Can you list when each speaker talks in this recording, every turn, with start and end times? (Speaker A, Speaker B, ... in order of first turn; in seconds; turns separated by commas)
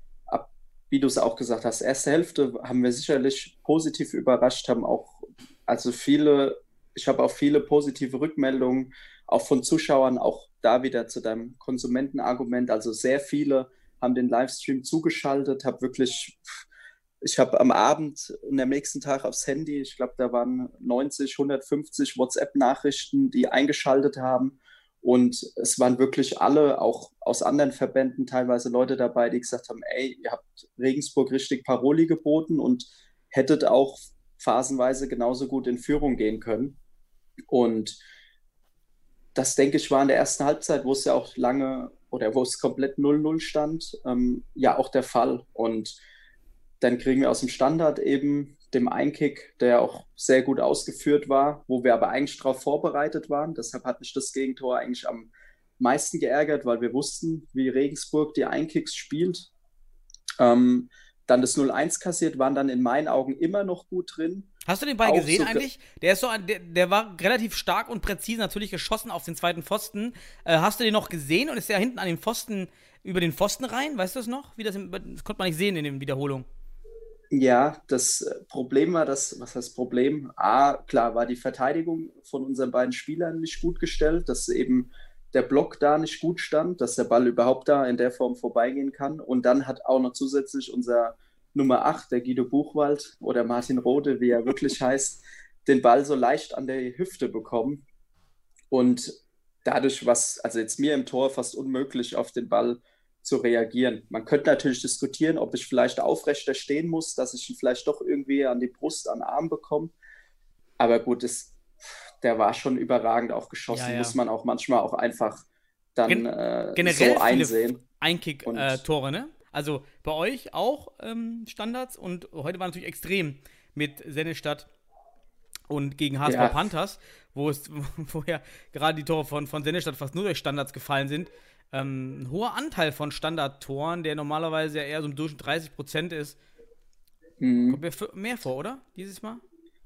Speaker A: 0.3-16.6, Speaker A: 17.2-36.8, Speaker A: 37.5-38.0, Speaker A: 39.4-46.0, Speaker A: 46.8-59.5, Speaker A: 60.4-64.5, Speaker B: 64.7-76.5, Speaker A: 65.0-65.7, Speaker A: 77.3-97.8, Speaker A: 98.7-109.9, Speaker A: 110.8-115.4, Speaker B: 113.7-114.2, Speaker A: 116.0-117.8, Speaker B: 116.1-124.7, Speaker A: 118.5-118.8, Speaker B: 125.7-136.4, Speaker A: 126.3-126.6, Speaker A: 137.4-137.8, Speaker B: 137.7-139.4